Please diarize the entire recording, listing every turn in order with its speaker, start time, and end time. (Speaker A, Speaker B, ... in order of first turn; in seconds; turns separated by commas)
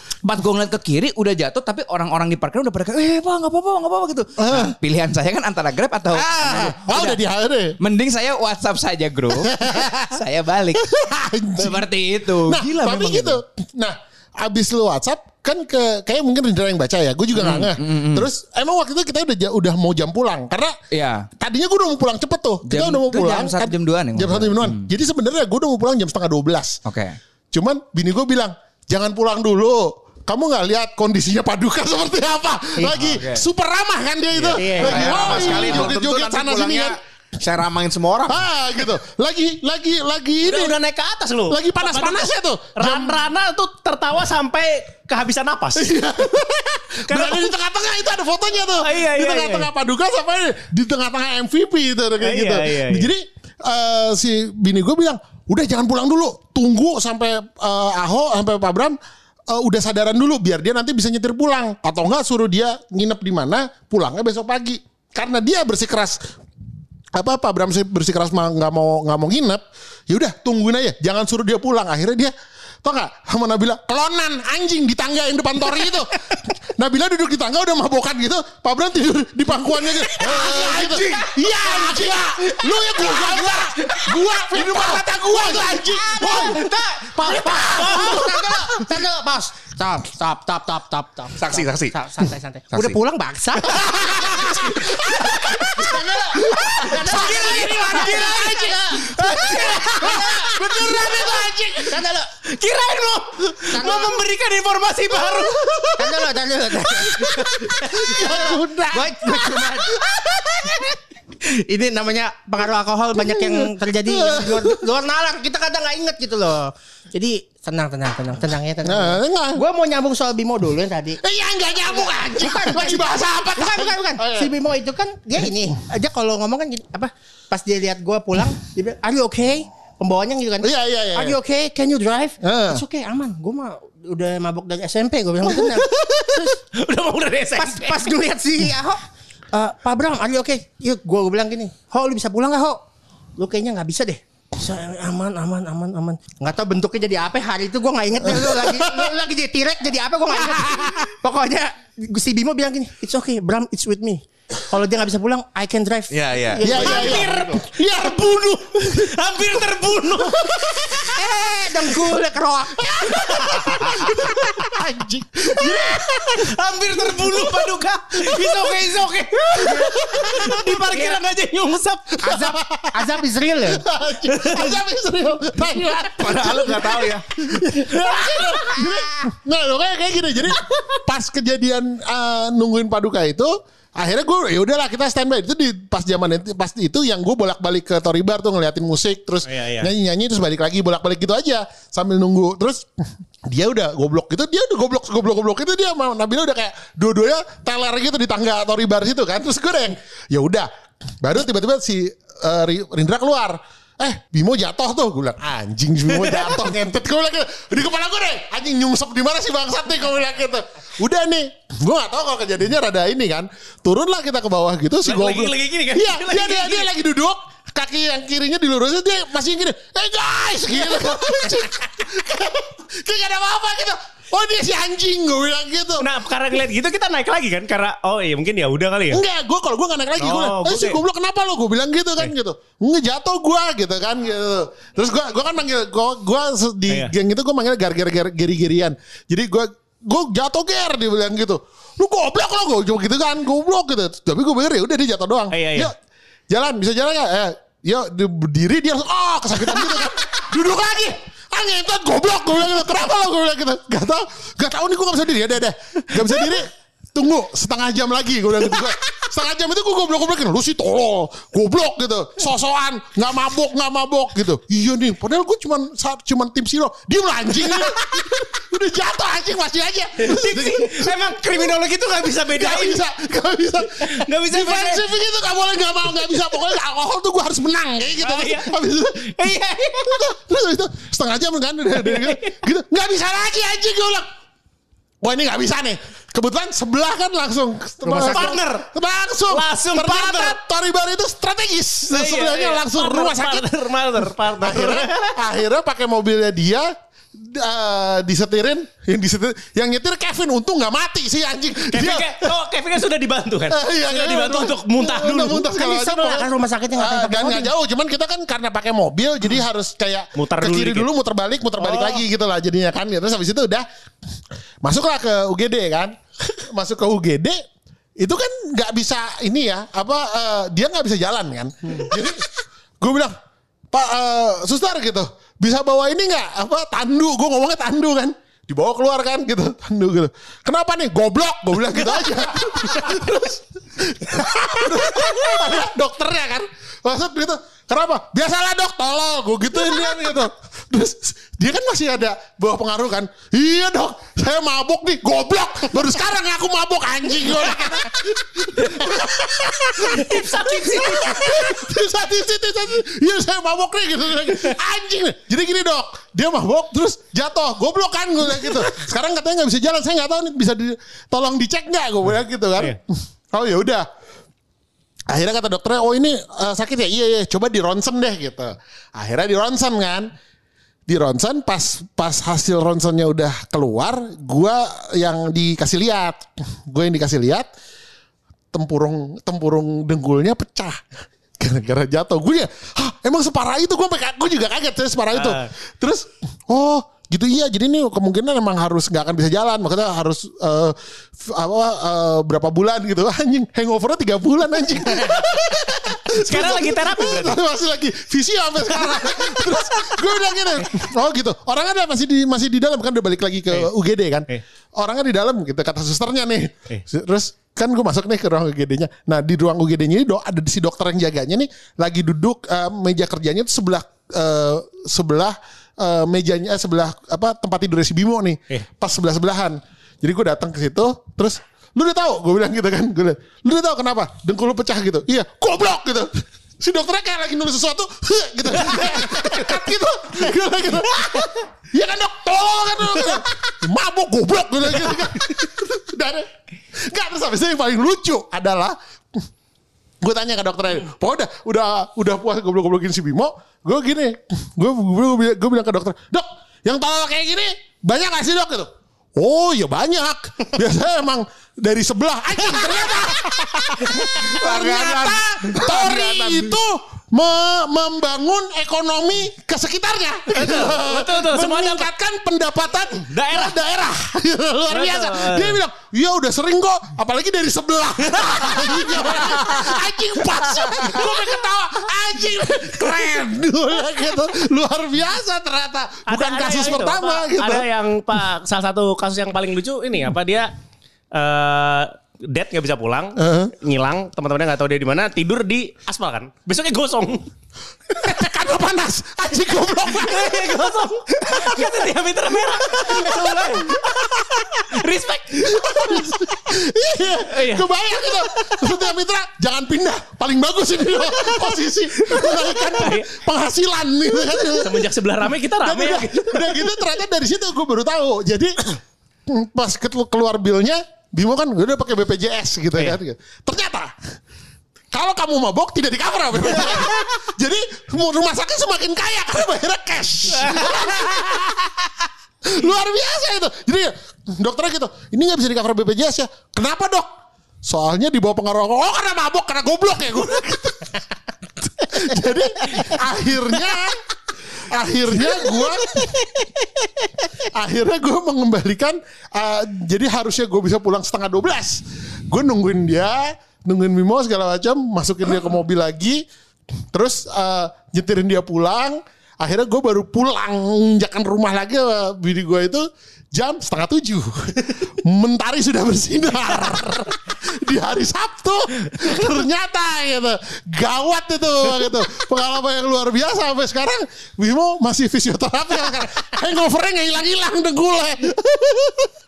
Speaker A: 0.2-7.2, Speaker B: 4.4-4.7, Speaker B: 6.1-7.7, Speaker A: 7.8-10.8, Speaker B: 9.4-10.2, Speaker B: 10.7-11.9, Speaker A: 11.6-13.4, Speaker B: 12.4-20.7, Speaker A: 17.4-18.3, Speaker A: 20.9-21.3, Speaker B: 21.4-26.8, Speaker A: 22.6-24.9, Speaker A: 26.9-27.2, Speaker B: 27.5-37.0, Speaker A: 32.9-33.5, Speaker A: 34.5-35.8, Speaker C: 34.6-35.2, Speaker D: 34.6-38.5, Speaker E: 34.7-35.0, Speaker B: 38.3-40.7, Speaker C: 40.4-45.9, Speaker B: 41.5-43.2, Speaker B: 45.8-59.0, Speaker C: 47.1-47.5, Speaker C: 48.8-49.7, Speaker C: 52.2-53.1, Speaker B: 59.5-66.2, Speaker B: 67.1-72.3, Speaker B: 72.8-89.0, Speaker E: 80.2-102.3, Speaker A: 80.4-81.0, Speaker C: 87.7-88.2, Speaker D: 91.4-92.0, Speaker D: 92.7-93.0, Speaker B: 93.6-102.0, Speaker C: 96.9-101.1, Speaker C: 102.4-105.9, Speaker E: 103.7-104.2, Speaker B: 105.2-106.3, Speaker E: 106.0-121.2, Speaker C: 107.0-108.2, Speaker B: 107.7-110.8, Speaker B: 113.2-114.9, Speaker B: 118.8-119.6, Speaker B: 121.2-124.5, Speaker E: 121.8-135.9, Speaker B: 130.6-131.4, Speaker B: 132.4-132.8, Speaker B: 135.4-136.6, Speaker C: 136.4-138.1, Speaker E: 137.6-139.0, Speaker E: 139.5-142.8, Speaker E: 143.4-157.6, Speaker B: 148.3-149.1, Speaker B: 150.3-151.1, Speaker D: 156.1-157.1, Speaker B: 156.6-158.3, Speaker C: 156.7-160.9, Speaker B: 160.2-161.1, Speaker E: 160.9-164.5, Speaker B: 163.0-166.5, Speaker C: 163.2-164.4, Speaker C: 165.7-172.1, Speaker B: 167.1-167.7, Speaker B: 168.2-168.9, Speaker E: 169.5-171.2, Speaker B: 169.5-171.0, Speaker B: 172.1-192.9, Speaker E: 172.2-173.8, Speaker C: 174.3-174.7, Speaker D: 176.1-177.2, Speaker C: 189.5-189.9, Speaker B: 193.4-200.7, Speaker B: 201.2-226.0, Speaker C: 206.2-206.6, Speaker C: 215.1-216.9, Speaker C: 226.0-229.2, Speaker B: 229.1-245.9, Speaker C: 230.2-231.0, Speaker C: 245.5-245.9, Speaker B: 246.5-271.1, Speaker C: 270.2-273.0, Speaker B: 272.5-279.5, Speaker C: 273.9-275.1, Speaker C: 278.2-278.7, Speaker C: 279.4-280.2, Speaker B: 280.1-284.3, Speaker C: 282.0-282.5, Speaker B: 285.2-293.7, Speaker E: 288.0-288.6, Speaker C: 288.3-288.9, Speaker C: 289.5-290.6, Speaker C: 292.1-295.3, Speaker B: 294.6-302.5, Speaker C: 301.9-305.6, Speaker B: 303.7-313.9, Speaker E: 305.6-307.7, Speaker C: 310.4-311.1, Speaker C: 311.8-312.2, Speaker B: 314.8-317.6, Speaker B: 318.2-322.4, Speaker B: 323.0-323.4, Speaker B: 323.9-364.1, Speaker C: 332.1-333.3, Speaker C: 349.9-351.8, Speaker B: 365.3-370.3, Speaker B: 371.1-377.7, Speaker B: 378.7-381.0, Speaker B: 381.6-436.5, Speaker C: 385.3-385.7, Speaker C: 395.2-395.4, Speaker C: 396.4-397.6, Speaker C: 428.9-429.7, Speaker B: 437.1-439.4, Speaker B: 440.2-477.9, Speaker C: 452.7-454.6, Speaker D: 454.7-455.1, Speaker A: 454.7-455.3, Speaker C: 455.7-456.7, Speaker C: 460.5-462.1, Speaker C: 463.3-463.8, Speaker C: 464.9-465.8, Speaker C: 468.3-471.4, Speaker C: 476.3-480.7, Speaker C: 481.3-487.5, Speaker B: 483.4-483.7, Speaker B: 488.1-490.8, Speaker C: 490.0-496.5, Speaker B: 492.9-494.9, Speaker B: 495.6-505.1, Speaker C: 497.4-498.9, Speaker C: 501.3-503.3, Speaker C: 504.7-507.0, Speaker B: 505.8-514.1, Speaker B: 515.1-522.1, Speaker C: 520.5-521.2, Speaker B: 522.6-527.3, Speaker B: 527.9-531.1, Speaker B: 531.8-534.2, Speaker B: 534.8-536.3, Speaker C: 536.1-536.4, Speaker B: 537.7-546.4, Speaker B: 547.1-569.3